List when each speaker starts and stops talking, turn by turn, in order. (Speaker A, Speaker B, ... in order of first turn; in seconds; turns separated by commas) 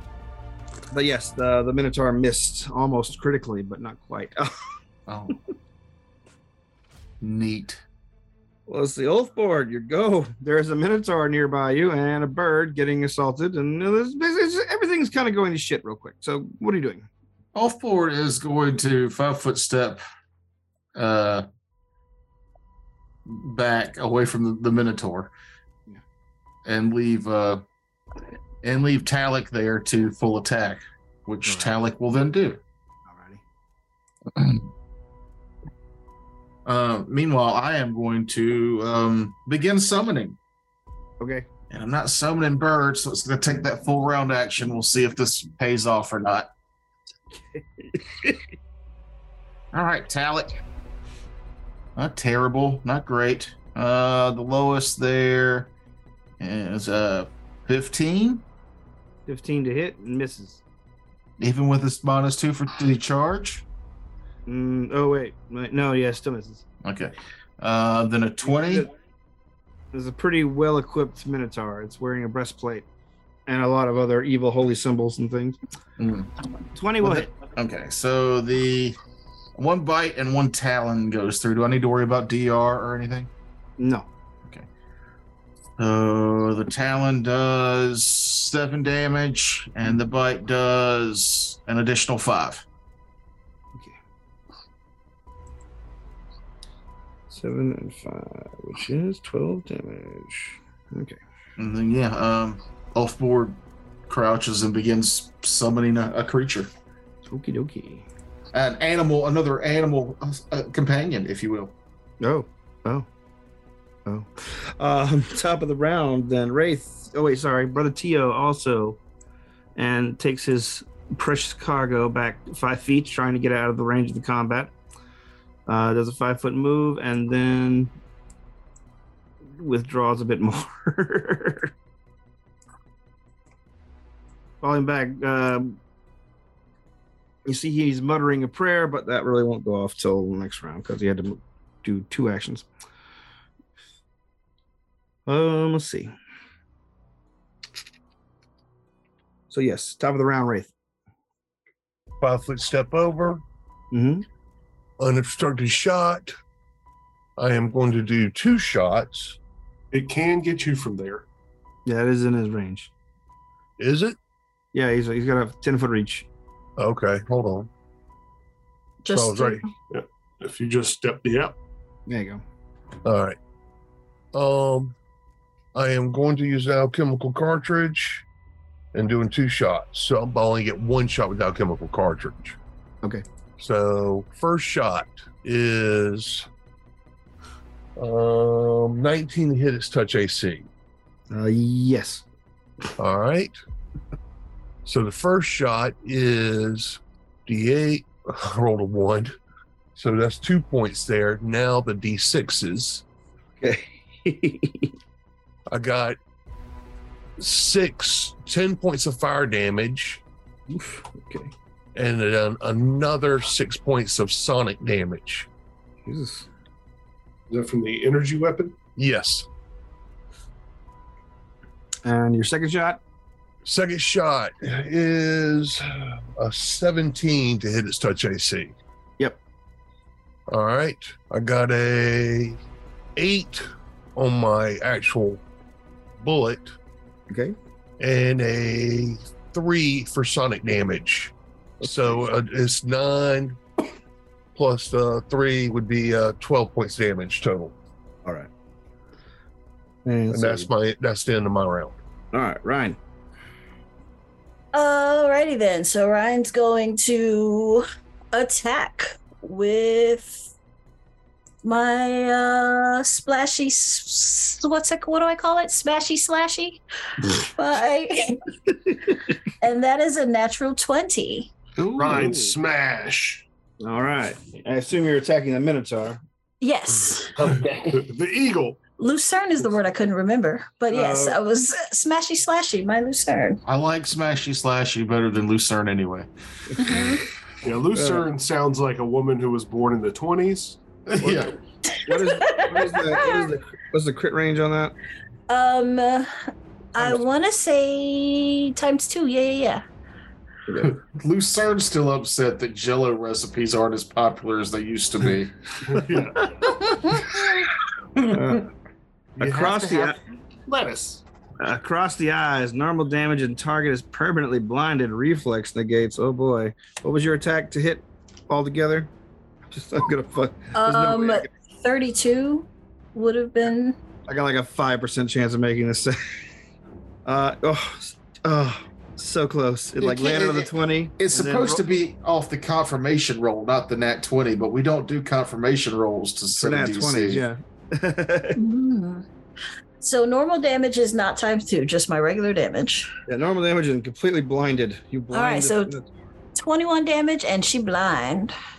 Speaker A: 0.9-4.6, Speaker B: 5.1-5.4, Speaker B: 7.2-7.8, Speaker A: 8.7-17.1, Speaker B: 17.5-20.0, Speaker B: 20.9-21.4, Speaker B: 23.2-25.3, Speaker B: 26.6-27.6, Speaker B: 28.6-32.6, Speaker A: 31.4-31.7, Speaker A: 33.0-33.4, Speaker B: 34.3-34.7, Speaker B: 36.6-40.4, Speaker A: 41.2-41.5, Speaker B: 41.7-46.5, Speaker A: 47.4-48.4, Speaker B: 49.7-50.5, Speaker B: 52.0-55.7, Speaker B: 56.4-58.4, Speaker A: 59.3-60.6, Speaker B: 61.4-63.6, Speaker A: 64.5-66.6, Speaker B: 66.8-68.9, Speaker A: 68.4-68.9, Speaker A: 69.9-72.8, Speaker A: 73.5-75.6, Speaker B: 76.0-76.3, Speaker A: 76.7-77.3, Speaker B: 77.0-79.0, Speaker B: 79.5-83.3, Speaker A: 83.8-84.1, Speaker B: 85.8-92.6, Speaker A: 97.3-101.2, Speaker B: 101.6-103.6, Speaker B: 104.1-106.7, Speaker A: 107.3-108.0, Speaker B: 108.5-111.7, Speaker A: 112.2-113.1, Speaker A: 114.0-119.0, Speaker A: 119.8-124.7, Speaker A: 125.7-127.9, Speaker A: 129.4-131.7, Speaker A: 134.6-135.8, Speaker A: 137.4-142.7, Speaker A: 145.2-146.1, Speaker A: 149.5-150.7, Speaker C: 152.2-153.4, Speaker A: 153.9-154.2, Speaker C: 155.0-156.3, Speaker C: 157.4-159.4, Speaker D: 159.9-161.2, Speaker A: 161.8-162.9, Speaker C: 163.8-164.2, Speaker A: 164.7-166.3, Speaker C: 166.8-167.7, Speaker E: 169.0-169.7, Speaker C: 169.1-169.6, Speaker D: 169.9-171.5, Speaker A: 172.1-172.4, Speaker C: 173.0-173.4, Speaker C: 174.3-174.9, Speaker C: 175.7-178.2, Speaker C: 178.9-182.6, Speaker C: 183.6-186.4, Speaker C: 187.9-190.7, Speaker A: 191.3-192.2, Speaker C: 193.0-193.5, Speaker C: 194.8-199.3, Speaker C: 199.9-203.0, Speaker A: 203.6-204.9, Speaker C: 205.7-206.2, Speaker C: 207.4-210.2, Speaker A: 210.7-211.5, Speaker C: 211.9-215.5, Speaker A: 216.0-216.5, Speaker D: 217.5-218.8, Speaker C: 219.0-219.5, Speaker A: 222.0-223.0, Speaker C: 223.6-225.8, Speaker C: 226.3-228.7, Speaker C: 230.5-232.6, Speaker C: 233.2-235.4, Speaker C: 236.2-236.7, Speaker A: 237.3-237.6, Speaker C: 238.0-243.6, Speaker A: 241.8-242.2, Speaker C: 244.5-247.7, Speaker A: 248.2-248.5, Speaker A: 250.0-250.7, Speaker C: 250.3-252.0, Speaker A: 252.3-253.0, Speaker E: 254.7-260.3, Speaker E: 261.6-268.4, Speaker E: 269.0-271.5, Speaker A: 271.8-272.5, Speaker D: 271.9-273.4, Speaker A: 273.8-276.2, Speaker E: 276.6-277.4, Speaker D: 277.4-278.8, Speaker E: 279.0-283.6, Speaker A: 280.9-281.4, Speaker B: 283.6-287.1, Speaker E: 286.8-287.2, Speaker D: 287.6-291.4, Speaker A: 287.9-288.3, Speaker B: 291.1-291.6, Speaker E: 291.9-293.5, Speaker A: 292.1-294.9, Speaker E: 295.5-296.3, Speaker E: 296.9-299.8, Speaker A: 300.7-300.9, Speaker B: 300.8-305.6, Speaker D: 305.9-306.5, Speaker A: 306.1-306.4, Speaker E: 306.6-307.4, Speaker A: 308.3-308.7, Speaker D: 309.4-311.2, Speaker A: 309.4-310.2, Speaker A: 311.6-319.1, Speaker A: 319.7-321.5, Speaker E: 320.7-324.0, Speaker A: 324.3-326.2, Speaker A: 327.2-331.8, Speaker B: 330.0-337.4, Speaker A: 336.6-338.6, Speaker E: 338.6-339.2, Speaker E: 340.0-343.1, Speaker A: 343.3-346.1, Speaker E: 345.3-345.9, Speaker E: 346.6-348.5